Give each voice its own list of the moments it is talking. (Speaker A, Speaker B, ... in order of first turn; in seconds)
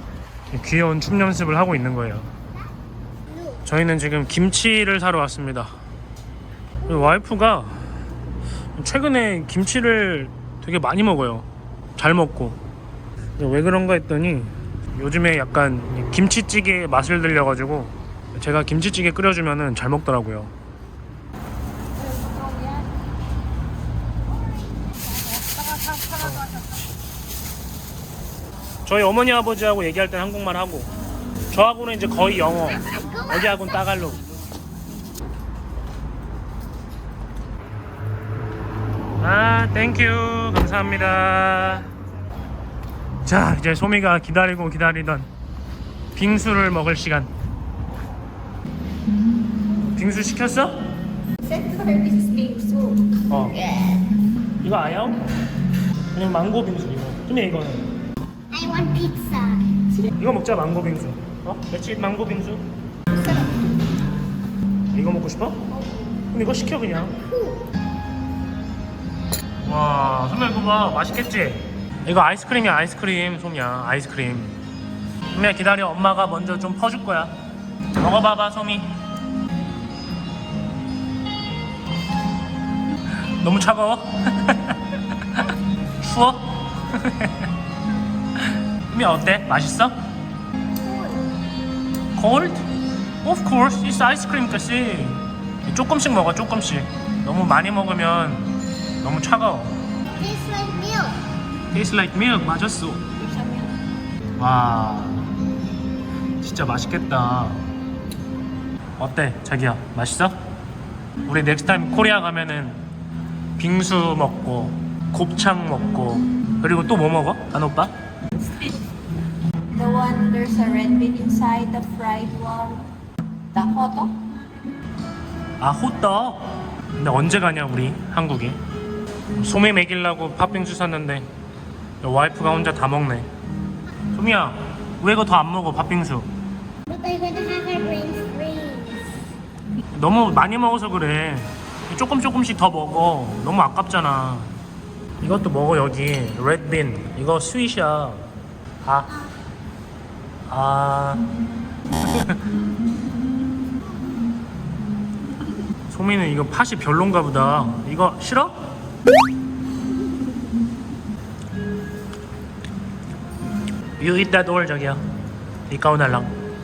Speaker A: 0.5-2.3, 3.6-5.8, 6.9-7.9, 8.8-12.6, 13.4-20.5, 26.1-26.6, 28.9-30.9, 31.5-34.2, 39.2-41.9, 43.2-45.3, 46.1-47.3, 49.8-50.9, 53.3-53.6, 54.6-55.2, 56.1-58.0, 60.1-62.7, 64.9-65.7, 66.3-67.2, 69.6-74.6, 75.3-77.4, 78.0-79.0, 83.4-87.5, 88.4-90.0, 92.2-92.7, 93.2-99.8, 101.7-103.1, 104.4-105.4, 106.4-107.7, 109.0-110.4, 111.2-112.9, 113.6-117.9, 125.6-128.6, 129.4-131.3, 132.0-133.3, 134.1-136.3, 139.9-144.5, 145.2-148.3, 148.8-149.2, 150.5-151.3, 152.1-152.4, 155.9-158.7, 164.0-165.0, 165.7-166.3
Speaker B: 22.1-22.7, 25.1-26.0, 51.4-54.0, 103.2-103.8, 118.4-118.7, 119.7-122.9, 123.5-124.2
Speaker C: 58.5-60.1, 63.2-63.6, 67.3-67.6, 100.2-101.3, 136.9-139.1